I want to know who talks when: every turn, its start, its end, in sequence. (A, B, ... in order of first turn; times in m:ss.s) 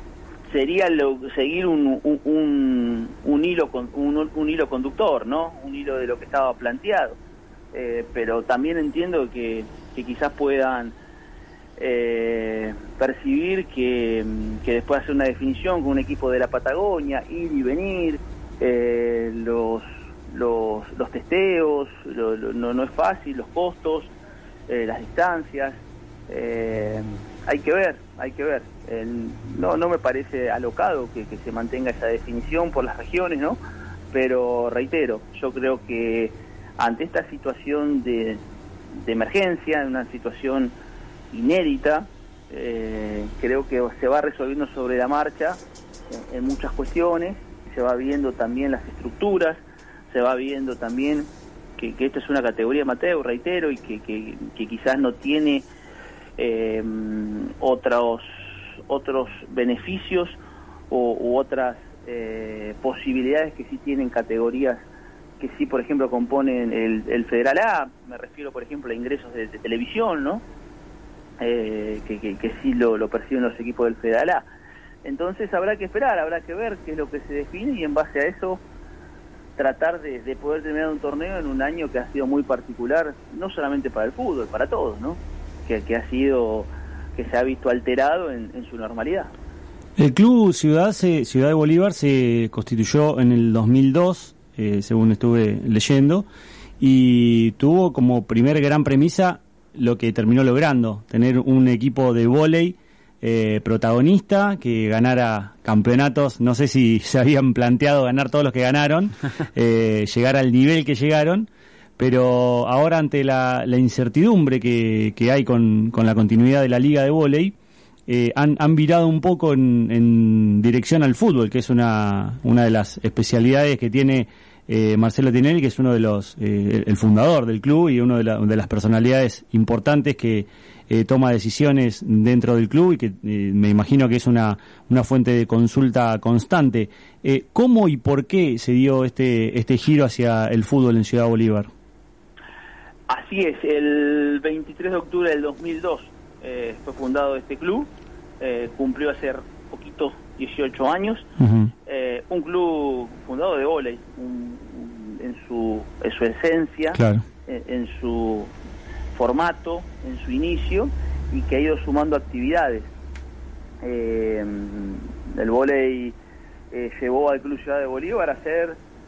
0:00.5-0:07.2 A
0:07.7-0:11.0 A
0:11.8-0:24.1 A
0:24.7-0:33.6 A
0:34.1-0:38.4 A
0:39.0-0:40.7 A
0:41.3-0:45.6 A
0:46.1-0:55.7 A
0:56.4-1:00.4 A
1:00.9-1:04.8 A
1:05.4-1:10.4 A
1:11.4-1:14.4 A
1:15.0-1:18.6 A
1:19.6-1:29.3 A
1:30.0-1:36.2 B
1:36.8-1:57.5 B
1:58.1-2:21.7 B
2:23.1-2:31.3 A
2:31.4-2:31.7 B
2:31.8-2:38.5 A
2:36.9-2:37.2 B
2:39.1-2:42.9 A
2:43.8-2:46.1 A
2:46.7-2:48.8 A